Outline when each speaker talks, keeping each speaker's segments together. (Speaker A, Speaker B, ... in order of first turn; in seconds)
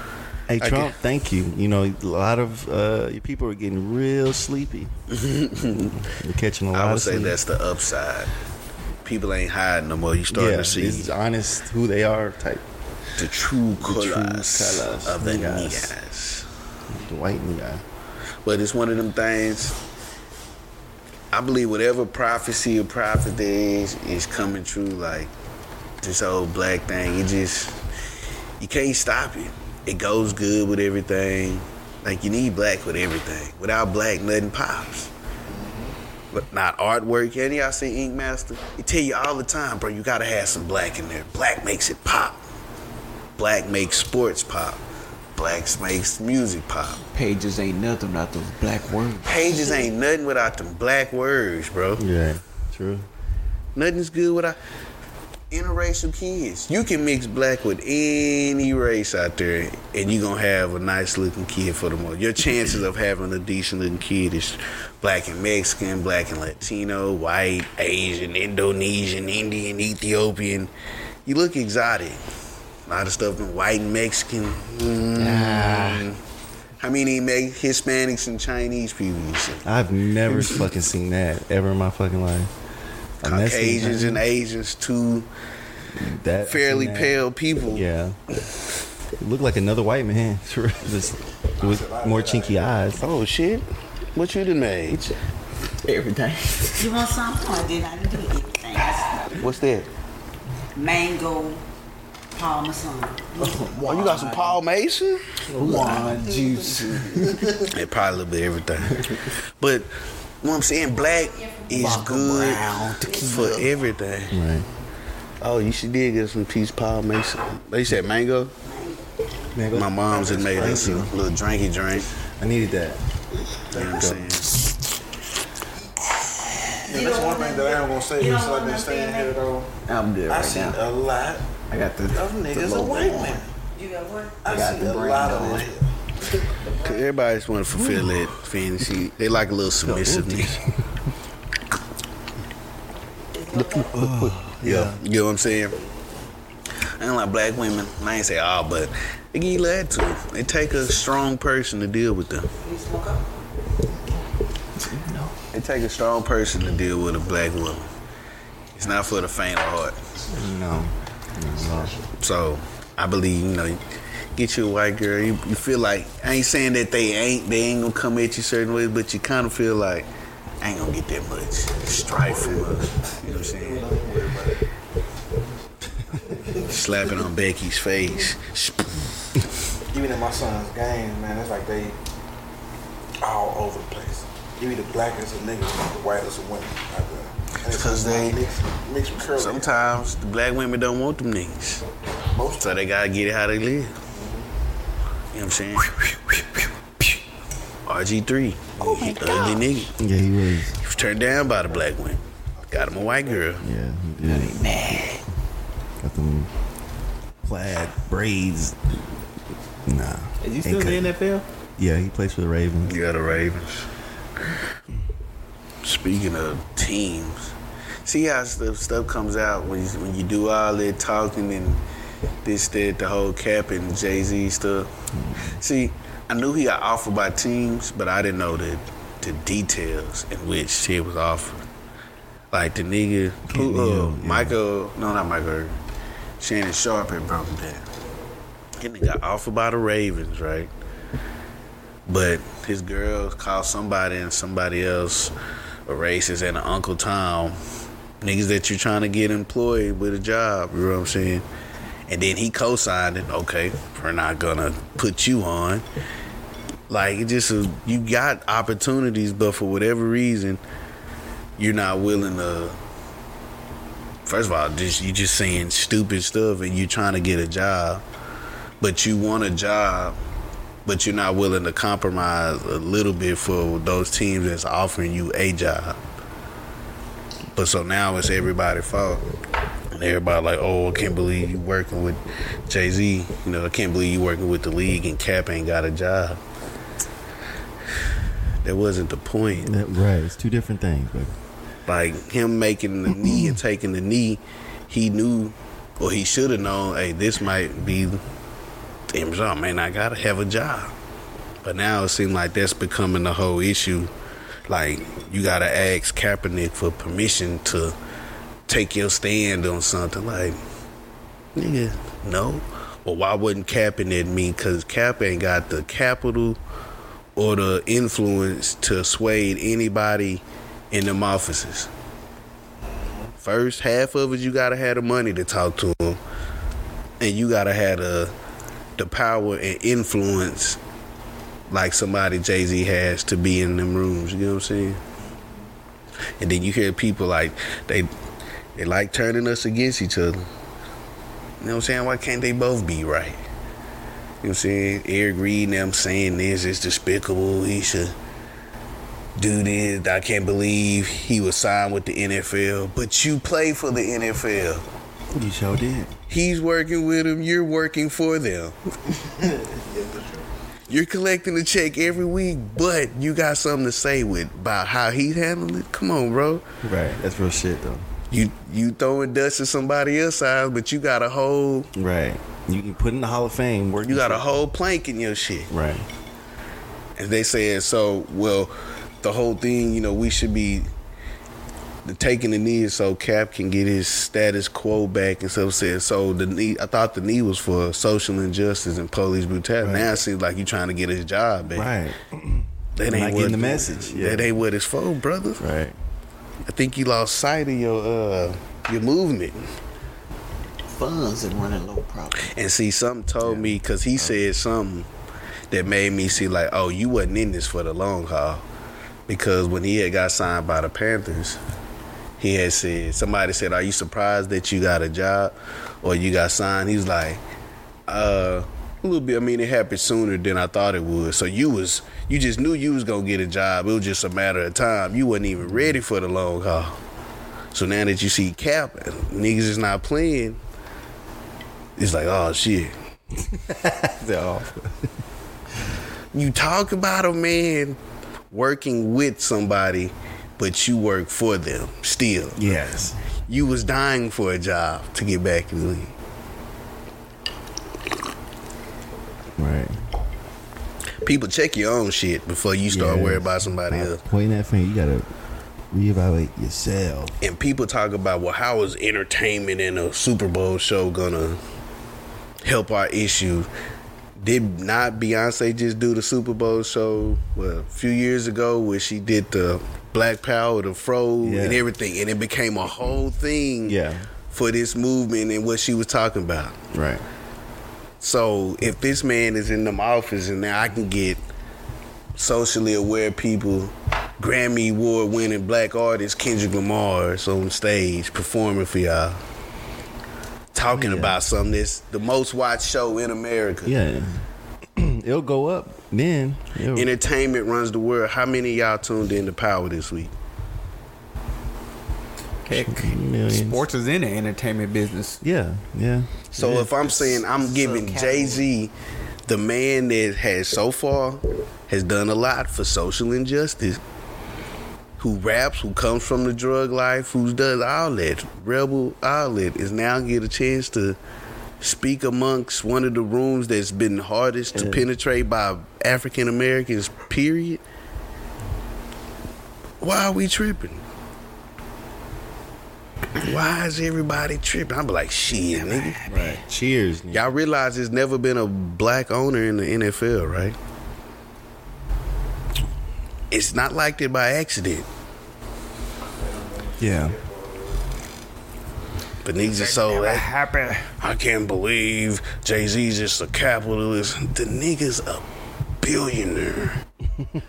Speaker A: 0.5-4.9, 6.0-7.4, 10.3-12.6, 13.8-15.9, 16.9-17.8, 52.0-53.1, 75.2-76.1, 79.6-82.5, 83.2-84.2, 85.9-88.2, 89.2-93.0, 114.3-114.7, 119.5-121.1, 122.4-123.0, 123.9-124.2, 137.8-138.1, 139.8-140.7, 143.9-145.0, 160.3-161.9, 195.8-196.4, 200.0-200.8, 203.6-205.1, 206.0-206.5, 207.4-208.8, 209.8-211.1, 211.8-212.9, 225.2-225.5, 233.5-234.6, 289.6-291.3, 293.2-293.6, 355.3-356.1, 366.8-368.1, 371.9-374.4, 375.7-376.1, 389.8-390.1, 391.7-394.5, 395.6-396.0, 403.4-404.4, 425.7-425.9, 433.4-435.1, 442.6-443.1, 449.6-449.9, 452.9-455.3, 455.9-457.4, 471.4-471.8, 473.8-474.3, 476.9-477.2, 490.9-491.4, 493.9-494.4, 494.9-497.1, 502.7-503.8, 505.4-506.9, 524.7-525.0, 536.2-537.4, 547.0-547.4, 550.3-550.9
Speaker B: 0.6-0.9, 5.1-6.0, 6.7-8.3, 9.0-11.1, 13.2-16.5, 18.4-19.8, 21.3-25.3, 26.0-27.8, 28.6-35.1, 36.3-42.4, 43.4-44.8, 45.3-47.0, 49.2-52.0, 53.7-54.6, 55.5-70.7, 71.2-72.2, 72.9-76.2, 76.8-79.6, 83.2-85.3, 86.4-87.8, 93.0-95.1, 99.3-99.9, 103.8-106.1, 107.7-114.4, 115.4-118.5, 119.7-122.1, 123.7-124.7, 136.8-140.6, 143.5-145.8, 147.0-152.5, 155.5-157.9, 158.8-159.9, 162.2-163.8, 164.3-170.1, 170.6-173.9, 176.6-179.0, 187.7-188.4, 189.3-191.8, 192.6-193.9, 195.3-196.0, 197.8-199.9, 200.8-203.6, 212.8-213.9, 215.8-217.5, 218.0-221.8, 222.4-224.9, 225.6-231.7, 232.5-235.8, 236.4-237.8, 238.8-240.7, 242.1-245.3, 245.8-247.6, 248.2-251.4, 252.1-255.8, 256.9-260.6, 261.6-262.8, 264.2-268.0, 268.8-270.1, 270.9-276.0, 277.5-279.2, 279.9-286.4, 288.6-289.7, 291.9-298.2, 299.1-300.9, 301.6-304.1, 304.7-307.9, 308.7-310.6, 311.5-316.6, 317.4-321.9, 323.4-326.2, 327.2-328.3, 329.0-330.8, 331.7-335.0, 336.4-338.1, 338.8-340.5, 341.6-343.4, 344.4-348.1, 349.4-354.8, 356.3-358.8, 360.9-366.6, 368.3-371.9, 374.0-375.7, 377.2-380.9, 382.0-391.9, 392.9-395.6, 396.6-399.7, 402.4-405.1, 405.7-408.6, 409.3-411.6, 412.4-417.4, 418.1-427.0, 427.7-430.6, 432.0-432.9, 436.3-438.0, 438.5-442.7, 443.5-446.1, 451.2-454.2, 457.4-461.6, 462.6-463.7, 464.4-474.0, 474.5-476.8, 478.2-481.4, 482.4-489.4, 490.7-493.9, 496.9-500.3, 506.5-508.9, 509.5-514.0, 515.2-521.2, 521.8-527.8, 530.0-531.0, 533.4-536.2, 537.3-540.8, 543.5-545.0, 549.4-550.5, 551.1-555.5, 556.0-557.0
Speaker C: 35.4-36.0, 91.6-92.7, 107.1-107.6, 120.2-121.0, 123.7-124.2, 126.8-129.7, 130.3-131.5, 132.1-133.5, 134.4-136.5, 171.8-174.6, 176.1-177.1, 179.9-181.9, 183.2-189.8, 192.3-192.8, 194.1-194.5, 201.0-201.8, 202.6-203.5, 322.9-323.3, 359.1-360.4, 546.4-548.0
Speaker D: 47.1-49.4, 95.8-96.9, 103.4-104.4, 105.5-107.5, 111.7-113.7, 129.9-130.8, 131.7-133.4, 134.5-135.7, 154.7-155.3, 204.2-205.2, 210.4-211.4, 400.9-402.5, 502.7-505.4, 507.1-508.6, 535.9-536.6
Speaker E: 96.8-99.3, 100.7-101.6, 102.3-104.3, 126.8-129.4, 133.7-134.4, 136.6-137.0, 143.3-143.9, 152.6-153.4, 198.8-199.7